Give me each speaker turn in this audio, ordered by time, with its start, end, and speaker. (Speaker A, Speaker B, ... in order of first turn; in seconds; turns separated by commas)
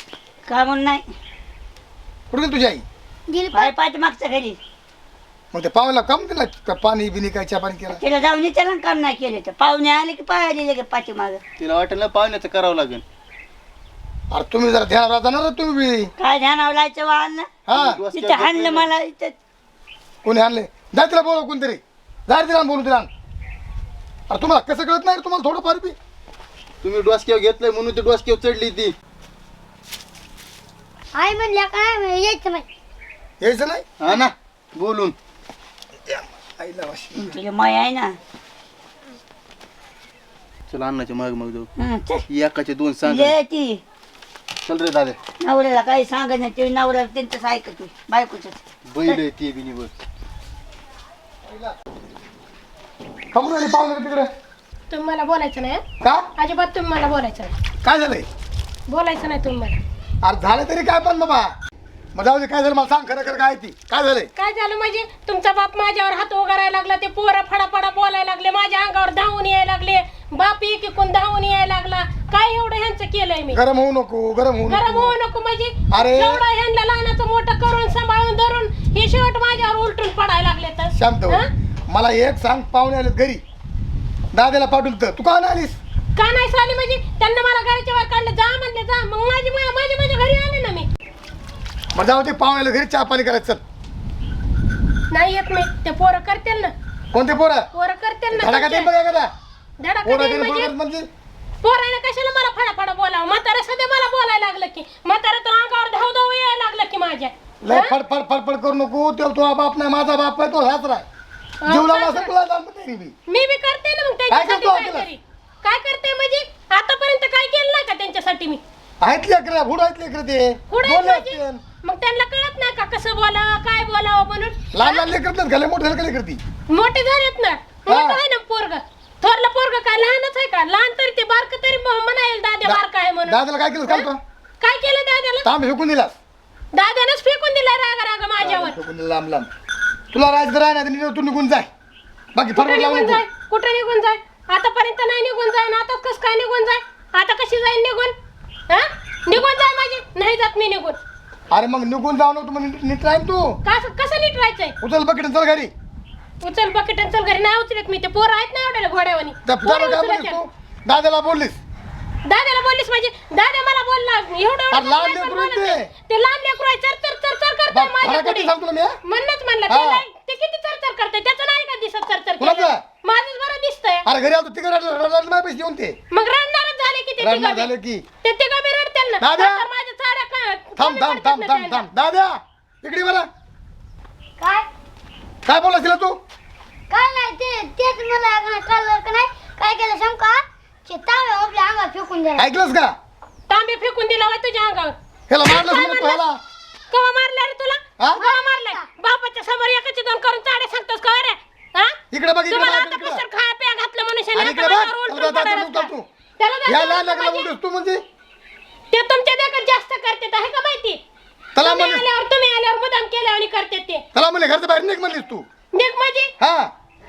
Speaker A: 0.5-1.0, Speaker B: 2.3-2.8, Speaker C: 3.3-3.7, Speaker A: 3.5-4.6, Speaker B: 5.5-8.0, Speaker A: 8.0-11.4, Speaker D: 11.6-13.0, Speaker B: 14.3-16.1, Speaker A: 16.2-17.5, Speaker B: 17.7-18.0, Speaker D: 17.7-18.9, Speaker A: 18.1-19.3, Speaker B: 20.2-23.1, Speaker B: 24.3-25.9, Speaker D: 26.8-28.9, Speaker C: 31.1-32.6, Speaker B: 33.4-33.9, Speaker D: 34.0-35.1, Speaker B: 36.1-37.4, Speaker A: 37.2-38.1, Speaker D: 40.7-41.7, Speaker A: 41.8-42.2, Speaker D: 42.3-43.3, Speaker A: 43.0-43.8, Speaker D: 44.6-45.2, Speaker A: 45.4-48.5, Speaker D: 48.9-49.9, Speaker B: 51.5-51.7, Speaker B: 53.3-54.3, Speaker E: 54.9-55.8, Speaker E: 56.4-57.5, Speaker B: 57.8-58.2, Speaker E: 58.9-59.8, Speaker B: 60.2-61.5, Speaker B: 62.1-64.3, Speaker E: 64.3-73.6, Speaker B: 73.5-75.2, Speaker E: 74.7-81.5, Speaker B: 75.9-76.4, Speaker B: 80.9-83.4, Speaker B: 84.3-85.8, Speaker E: 86.2-90.9, Speaker B: 91.9-93.6, Speaker E: 95.1-96.7, Speaker B: 97.1-97.7, Speaker E: 97.7-98.9, Speaker B: 98.3-99.3, Speaker E: 99.8-100.7, Speaker B: 100.0-101.0, Speaker E: 101.6-107.9, Speaker B: 107.6-111.0, Speaker E: 111.6-112.3, Speaker B: 111.7-113.1, Speaker E: 113.3-118.6, Speaker B: 114.3-115.1, Speaker B: 119.0-121.6, Speaker E: 120.7-125.1, Speaker B: 124.7-126.4, Speaker E: 126.7-134.1, Speaker B: 127.9-128.2, Speaker B: 132.6-134.2, Speaker E: 134.6-135.5, Speaker B: 135.4-136.1, Speaker E: 136.7-138.8, Speaker B: 138.4-139.5, Speaker B: 140.1-141.7, Speaker B: 142.3-143.2, Speaker E: 142.6-148.1, Speaker E: 148.7-151.0, Speaker B: 151.5-153.6, Speaker E: 153.6-154.8, Speaker B: 154.8-155.7, Speaker E: 156.4-160.4, Speaker B: 159.4-161.6, Speaker E: 162.3-168.5, Speaker B: 164.7-165.9, Speaker B: 167.7-169.0, Speaker E: 169.0-174.1, Speaker B: 169.7-170.0, Speaker B: 172.4-172.8, Speaker B: 174.1-175.9, Speaker E: 176.1-177.7, Speaker B: 177.2-178.0, Speaker E: 178.2-181.9, Speaker B: 179.2-179.7, Speaker B: 180.8-183.2, Speaker C: 184.4-184.6, Speaker B: 185.4-186.2, Speaker C: 186.9-192.4, Speaker B: 192.4-192.9, Speaker E: 193.5-196.2, Speaker B: 195.3-196.4, Speaker E: 196.9-201.9, Speaker B: 202.1-203.2, Speaker E: 202.5-207.5, Speaker B: 204.3-206.1, Speaker B: 206.7-208.0, Speaker E: 208.9-211.0, Speaker B: 211.6-212.1, Speaker E: 211.6-214.0, Speaker B: 214.1-215.4, Speaker E: 215.7-216.3, Speaker B: 216.4-216.7